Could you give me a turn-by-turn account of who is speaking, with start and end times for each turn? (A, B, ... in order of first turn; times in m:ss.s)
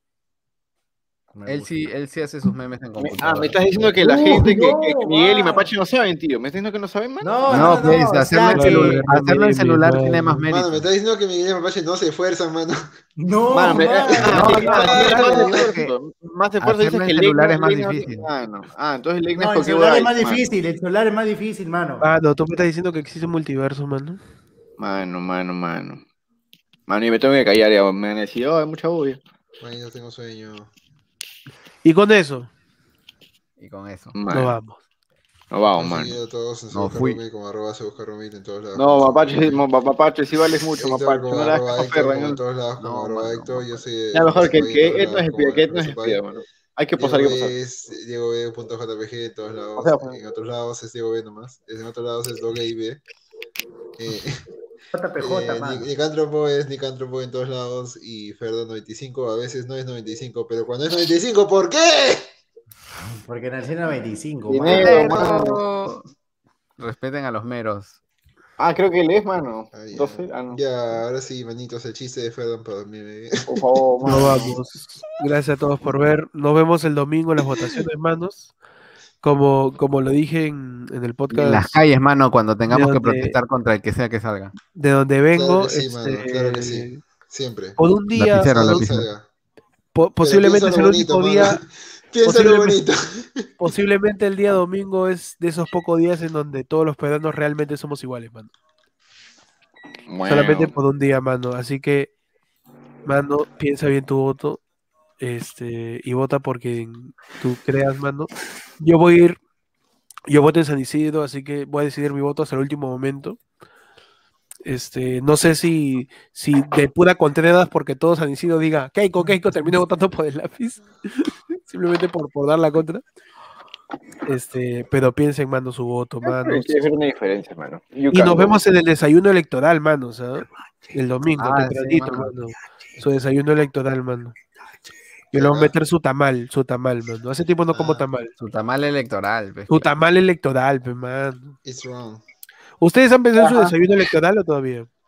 0:01.3-0:01.9 A
0:01.5-0:04.0 B
0:03.0-0:07.8 C
0:04.0-0:05.7 A
0:07.2-0:09.0 A
0:07.5-0:10.9 B
0:08.4-0:10.4 D
0:10.5-0:12.9 E
0:13.2-0:15.0 A
0:13.5-0:20.4 C
0:14.2-0:15.6 E
0:14.4-0:15.9 B
0:14.8-0:15.4 D
0:16.6-0:18.3 B
0:19.4-0:22.1 A
0:22.0-0:24.2 D
0:24.8-0:26.0 C
0:26.9-0:29.2 C
0:29.6-0:30.7 E
0:31.8-0:32.5 D
0:33.6-0:34.2 B
0:34.2-0:34.6 C
0:34.3-0:34.8 D
0:35.5-0:36.2 C
0:35.8-0:39.6 E
0:36.7-0:37.2 B
0:38.8-0:42.4 C
0:40.8-0:46.2 E
0:42.8-0:43.8 B
0:44.1-0:47.6 C
0:47.0-0:53.0 E
0:49.8-0:50.2 C
0:54.0-0:54.4 E
0:54.9-0:55.9 A
0:55.2-1:02.3 E
1:03.2-1:05.0 A
1:04.5-1:05.6 C
1:04.7-1:06.0 B
1:04.9-1:05.2 D
1:06.8-1:08.0 B
1:08.6-1:10.6 C
1:09.7-1:13.6 E
1:13.5-1:14.5 C
1:14.1-1:18.5 D
1:14.1-1:14.4 A
1:19.2-1:21.8 D
1:21.3-1:24.6 B
1:22.7-1:23.4 D
1:24.7-1:27.0 D
1:25.3-1:27.8 E
1:27.8-1:28.9 D
1:28.2-1:29.1 B
1:28.4-1:29.2 E
1:29.9-1:31.6 D
1:30.2-1:33.5 E
1:32.2-1:32.8 D
1:33.6-1:38.5 D
1:40.1-1:40.7 C
1:40.3-1:42.1 D
1:43.0-1:44.6 D
1:45.2-1:49.4 D
1:50.3-1:53.4 D
1:54.6-2:03.0 D
2:04.3-2:06.8 D
2:06.2-2:08.6 C
2:08.1-2:14.4 D
2:11.4-2:12.3 B
2:15.3-2:15.7 C
2:15.4-2:18.3 D
2:17.7-2:18.1 E
2:18.4-2:19.9 B
2:19.7-2:21.6 D
2:21.6-2:22.2 E
2:22.8-2:24.9 D
2:23.4-2:23.8 C